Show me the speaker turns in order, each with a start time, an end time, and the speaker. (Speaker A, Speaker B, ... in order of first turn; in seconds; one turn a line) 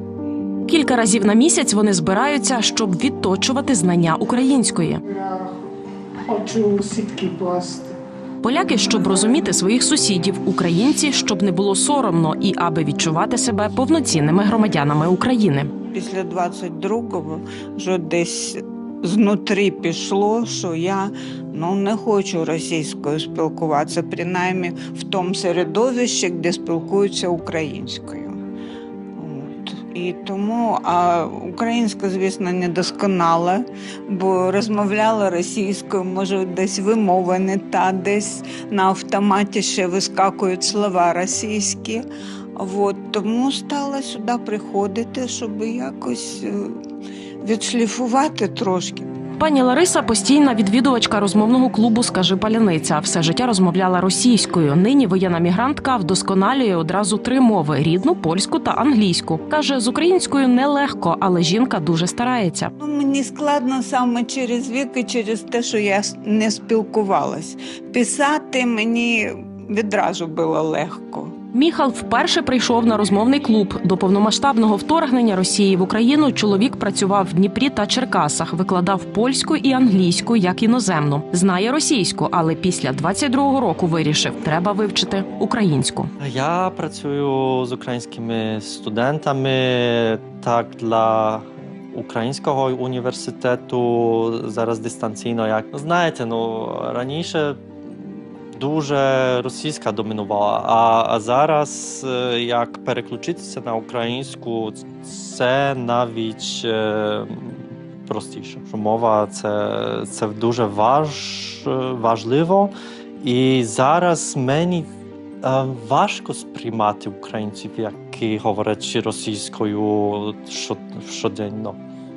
Speaker A: 0.7-5.0
Speaker B: 6.3-8.0
Speaker A: 8.4-15.7
Speaker B: 15.9-28.4
Speaker B: 29.2-46.8
Speaker B: 47.4-49.1
Speaker A: 49.4-62.7
Speaker B: 62.8-71.3
Speaker A: 71.5-86.1
Speaker C: 86.2-114.9
Speaker C: 115.4-121.8